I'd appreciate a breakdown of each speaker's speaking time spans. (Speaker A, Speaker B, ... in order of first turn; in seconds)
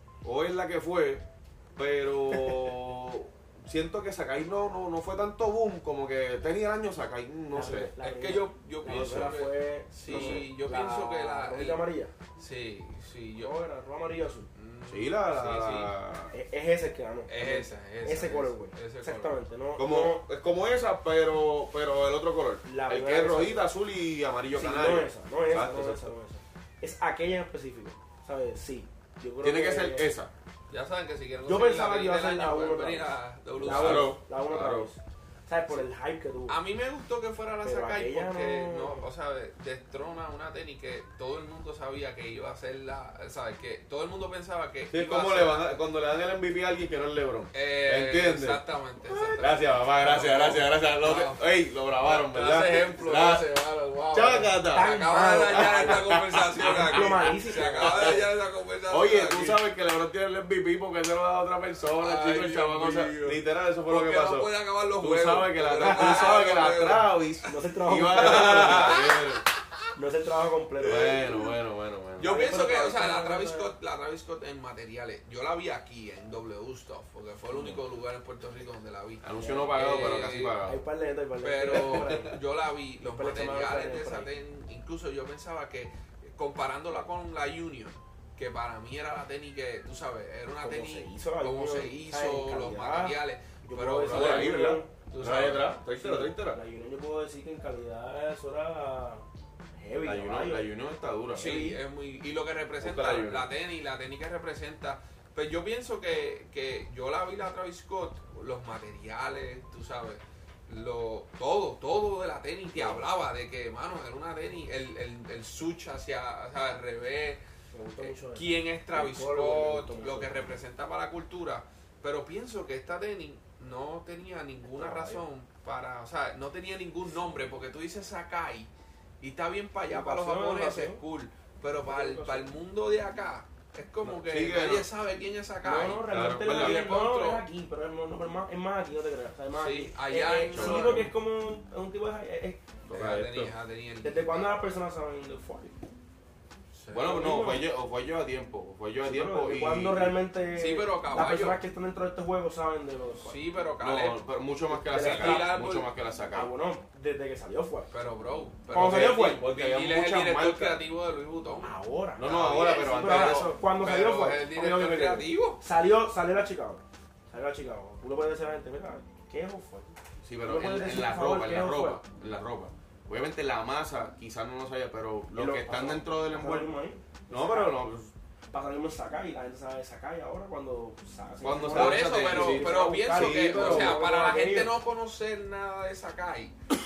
Speaker A: 0.2-7.9, 8.8-9.4, 10.0-10.4, 14.9-16.3, 19.8-26.1, 29.4-30.3, 33.6-34.9, 44.9-53.5, 54.1-55.0, 55.5-58.2, 58.9-69.4, 70.8-72.5, 79.2-80.8, 81.7-82.3, 94.0-96.6, 100.0-101.6, 102.8-103.5, 134.0-134.9, 136.1-136.9, 140.5-141.1, 142.9-143.5, 146.9-150.2, 153.8-156.5, 158.8-160.8, 162.2-163.5, 170.2-176.7, 177.3-178.1, 181.4-184.0
Speaker B: 2.3-2.7, 7.5-12.1, 13.4-14.5, 16.3-20.2, 22.6-23.7, 24.5-30.1, 31.4-36.6, 37.6-39.1, 54.7-56.0, 56.6-58.2, 65.8-66.3, 67.4-69.0, 70.0-71.4, 72.2-73.7, 77.5-77.8, 79.3-80.0, 80.6-82.3, 83.0-84.3, 90.6-94.9, 96.0-100.7, 101.3-101.8, 112.7-113.1, 117.7-120.6, 124.7-125.2, 129.9-131.0, 131.8-132.6, 135.6-142.6, 144.0-145.8, 147.0-147.7, 149.0-153.4, 154.7-155.6, 156.3-157.9, 158.7-159.5, 161.6-169.9, 170.4-172.0, 175.3-177.8, 178.5-184.7
Speaker C: 7.7-13.5, 14.5-15.9, 17.3-19.4, 30.7-34.2, 36.5-45.8, 47.5-51.4, 52.0-59.6, 61.8-67.2, 68.1-69.5, 70.8-71.3, 72.2-80.6, 81.4-95.8, 101.3-117.4, 118.0-137.5, 139.5-141.1, 142.9-144.6, 146.7-147.2, 150.5-151.6, 153.2-154.2, 154.9-155.9, 157.9-165.6, 181.7-186.5